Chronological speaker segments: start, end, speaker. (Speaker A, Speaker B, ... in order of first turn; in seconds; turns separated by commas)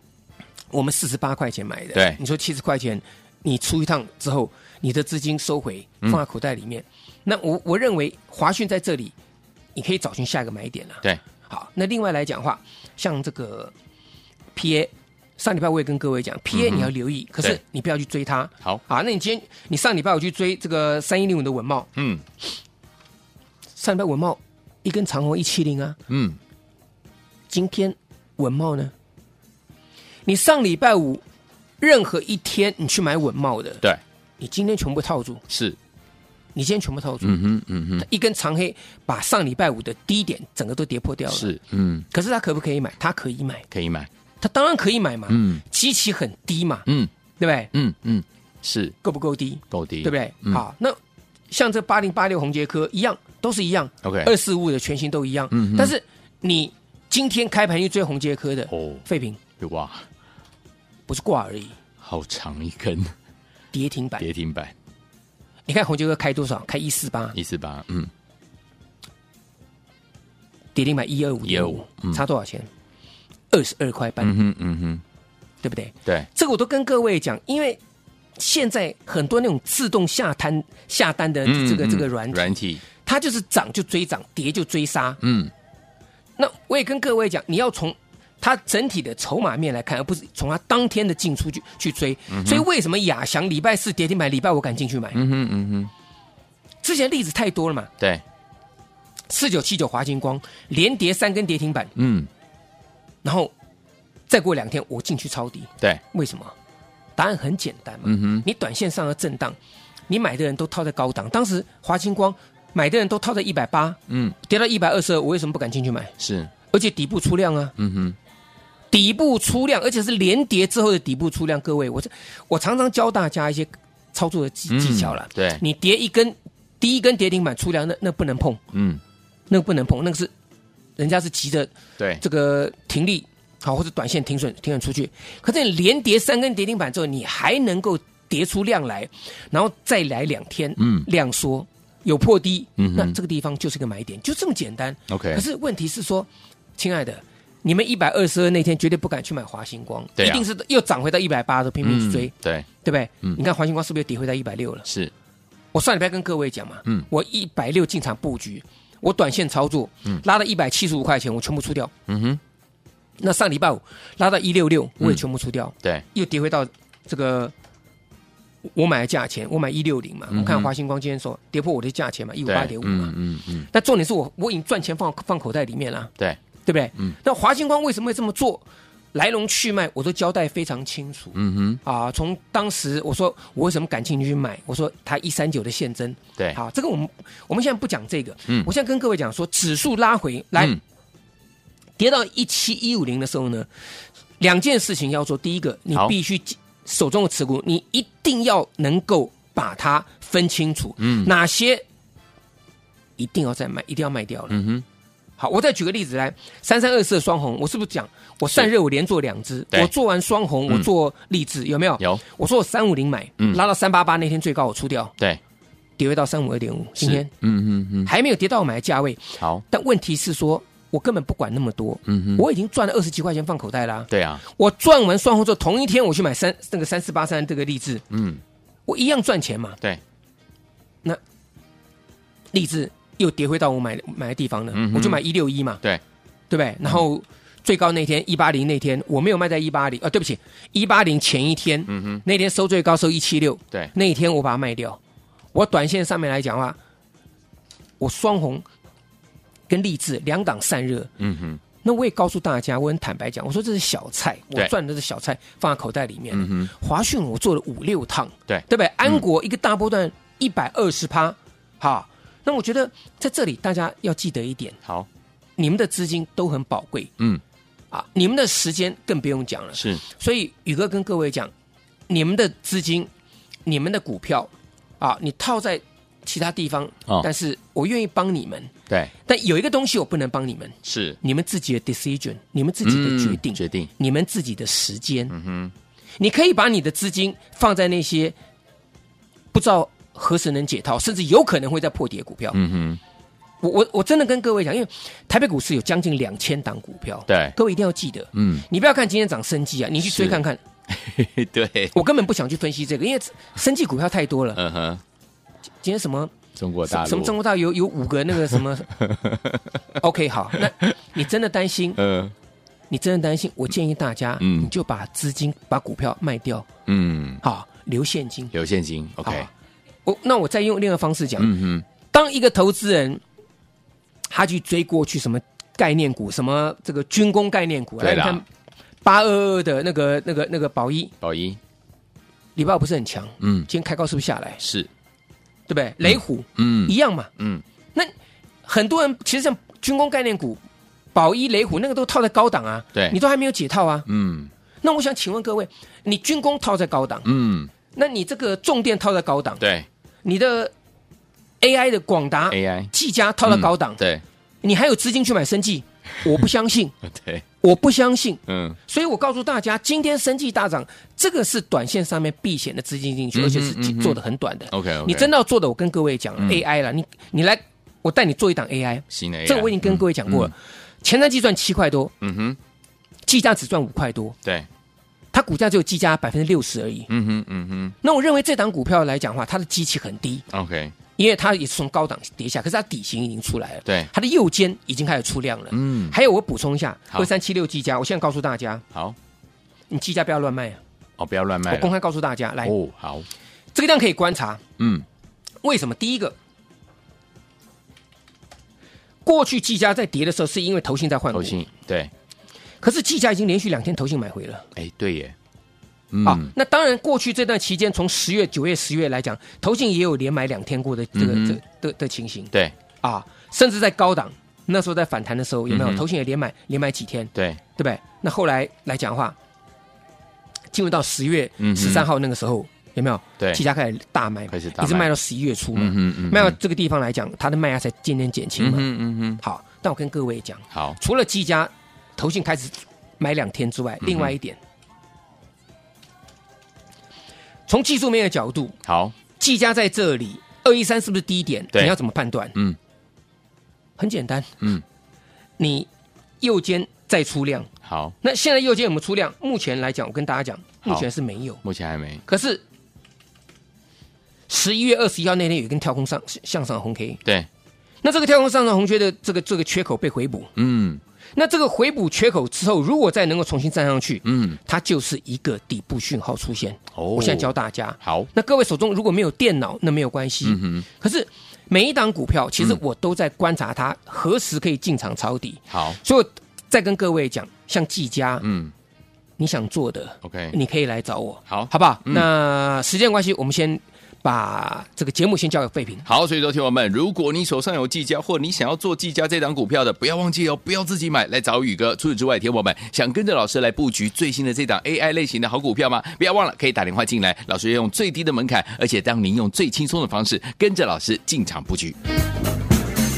Speaker A: 0.7-9.1, Speaker A: 9.8-13.7, Speaker A: 14.6-21.9, Speaker B: 16.5-17.6, Speaker B: 22.0-22.2, Speaker A: 23.8-26.0, Speaker B: 26.1-26.4, Speaker A: 27.5-28.9, Speaker A: 30.3-31.2, Speaker A: 31.8-33.8, Speaker A: 34.4-35.4, Speaker B: 35.5-35.8, Speaker A: 36.5-37.4, Speaker B: 37.2-38.1, Speaker A: 38.0-41.5, Speaker B: 41.3-42.1, Speaker A: 42.1-43.6, Speaker B: 43.7-44.1, Speaker A: 44.4-46.9, Speaker B: 45.3-45.6, Speaker A: 47.4-47.7, Speaker B: 47.7-49.0, Speaker A: 49.0-51.0, Speaker B: 49.7-50.6, Speaker A: 51.5-59.4, Speaker B: 54.0-54.3, Speaker B: 55.5-55.9, Speaker B: 58.7-59.0, Speaker B: 59.6-60.0, Speaker A: 61.1-61.8, Speaker B: 62.0-63.1, Speaker A: 63.7-64.3, Speaker B: 64.2-64.7, Speaker A: 65.7-67.4, Speaker B: 67.3-68.1, Speaker A: 70.8-72.7, Speaker B: 71.5-72.2, Speaker A: 73.5-74.3, Speaker B: 74.2-75.0, Speaker A: 75.6-77.8, Speaker A: 78.4-85.2, Speaker B: 81.5-82.8, Speaker B: 85.2-85.5, Speaker A: 86.4-95.2, Speaker B: 92.3-92.7, Speaker B: 95.1-95.9, Speaker A: 96.8-97.9, Speaker A: 99.3-101.9, Speaker B: 102.0-102.3, Speaker A: 103.2-103.5, Speaker A: 104.3-106.5, Speaker A: 107.2-109.6, Speaker B: 108.0-108.5, Speaker A: 110.1-116.1, Speaker B: 114.1-114.3, Speaker B: 116.2-116.5, Speaker A: 116.7-117.7, Speaker B: 117.8-118.2, Speaker A: 118.9-128.6, Speaker B: 124.7-125.6, Speaker B: 128.7-129.0, Speaker A: 129.5-130.3, Speaker A: 131.0-152.3, Speaker B: 140.8-141.1, Speaker B: 142.8-143.2, Speaker B: 145.1-145.4, Speaker B: 150.2-150.4, Speaker B: 151.8-152.7, Speaker A: 152.8-154.9, Speaker B: 154.9-155.1, Speaker A: 155.7-161.9, Speaker B: 162.1-162.4, Speaker A: 163.2-167.5, Speaker A: 168.7-173.2, Speaker B: 170.3-170.7, Speaker B: 172.5-173.7, Speaker A: 173.7-176.1, Speaker A: 176.7-190.8, Speaker B: 181.3-181.8, Speaker A: 192.0-193.7, Speaker A: 194.4-201.8, Speaker B: 201.0-201.3, Speaker A: 203.2-204.6, Speaker B: 204.5-204.8, Speaker A: 205.4-215.1, Speaker A: 216.0-217.3, Speaker B: 217.0-218.1, Speaker A: 218.1-228.0, Speaker B: 222.1-222.5, Speaker B: 224.1-224.4, Speaker B: 228.1-228.4, Speaker A: 228.9-229.8, Speaker A: 232.5-235.8, Speaker B: 234.7-235.2, Speaker A: 236.5-245.0, Speaker B: 241.9-242.2, Speaker A: 245.5-246.8, Speaker A: 248.0-248.7, Speaker A: 249.7-251.1, Speaker B: 251.2-251.6, Speaker A: 251.8-264.8, Speaker B: 256.3-256.7, Speaker B: 258.5-259.2, Speaker A: 265.6-267.1, Speaker A: 267.9-271.5, Speaker B: 269.8-270.0, Speaker A: 272.1-273.1, Speaker A: 273.7-278.7, Speaker A: 279.2-285.3, Speaker B: 280.9-281.2, Speaker B: 282.8-283.9, Speaker B: 285.3-285.7, Speaker A: 286.2-288.4, Speaker A: 289.5-292.6, Speaker B: 292.5-293.0, Speaker A: 293.6-300.6, Speaker B: 297.3-297.6, Speaker B: 298.3-298.7, Speaker B: 300.0-301.9, Speaker A: 301.9-304.6, Speaker B: 304.6-305.0, Speaker A: 305.8-306.3, Speaker B: 306.6-307.4, Speaker A: 306.9-308.9, Speaker B: 308.5-309.8, Speaker A: 310.0-312.0, Speaker B: 310.7-310.9, Speaker B: 312.0-312.3, Speaker A: 312.9-316.7, Speaker B: 314.4-314.7, Speaker B: 316.9-317.4, Speaker A: 317.4-318.5, Speaker B: 318.5-319.5, Speaker A: 320.1-323.2, Speaker B: 321.4-321.9, Speaker A: 324.3-328.4, Speaker B: 328.0-328.4, Speaker A: 329.0-331.1, Speaker B: 331.2-331.6, Speaker A: 332.6-334.6, Speaker B: 333.4-333.7, Speaker B: 334.6-334.9, Speaker A: 335.7-337.3, Speaker B: 336.1-337.6, Speaker A: 338.6-340.6, Speaker A: 341.1-344.1, Speaker B: 344.1-344.5, Speaker A: 344.8-347.3, Speaker B: 347.2-347.7, Speaker A: 347.9-349.6, Speaker B: 349.6-349.9, Speaker A: 350.2-350.7, Speaker A: 351.6-354.0, Speaker B: 352.5-352.9, Speaker B: 353.5-354.2, Speaker A: 354.6-356.9, Speaker B: 357.1-357.4, Speaker A: 357.6-372.1, Speaker B: 358.5-358.8, Speaker B: 363.4-364.2, Speaker B: 364.7-365.3, Speaker B: 369.1-370.5, Speaker B: 372.2-372.6, Speaker A: 373.3-374.4, Speaker A: 375.3-377.1, Speaker B: 377.1-378.0, Speaker A: 378.0-380.4, Speaker B: 380.5-380.9, Speaker A: 381.2-388.8, Speaker B: 385.7-386.2, Speaker A: 389.9-390.8, Speaker B: 391.2-391.9, Speaker A: 391.7-392.7, Speaker B: 392.6-393.3, Speaker A: 393.7-394.6, Speaker B: 394.8-395.1, Speaker A: 395.6-396.4, Speaker A: 399.2-401.6, Speaker B: 401.3-402.1, Speaker A: 402.8-404.7, Speaker B: 404.8-405.4, Speaker B: 406.1-406.5, Speaker A: 406.2-419.4, Speaker B: 411.1-411.6, Speaker B: 415.7-416.0, Speaker A: 420.7-428.9, Speaker B: 421.6-422.1, Speaker B: 424.5-425.1, Speaker B: 425.8-426.6, Speaker B: 428.6-429.4, Speaker A: 429.4-434.6, Speaker B: 430.7-431.0, Speaker B: 434.0-434.3, Speaker A: 437.7-438.8, Speaker B: 438.9-439.1, Speaker A: 439.4-442.6, Speaker A: 444.0-444.6, Speaker A: 445.6-445.9, Speaker A: 446.4-447.7, Speaker B: 447.8-448.2, Speaker A: 448.2-451.6, Speaker B: 451.6-452.2, Speaker A: 452.3-452.6, Speaker A: 454.5-457.2, Speaker A: 458.0-460.5, Speaker B: 460.6-461.0, Speaker A: 461.4-478.4, Speaker B: 464.2-464.6, Speaker B: 466.9-467.5, Speaker B: 468.0-468.3, Speaker B: 470.4-470.9, Speaker B: 475.7-476.0, Speaker B: 478.4-478.7, Speaker A: 479.4-486.1, Speaker B: 480.2-480.6, Speaker B: 481.5-482.3, Speaker B: 486.1-502.0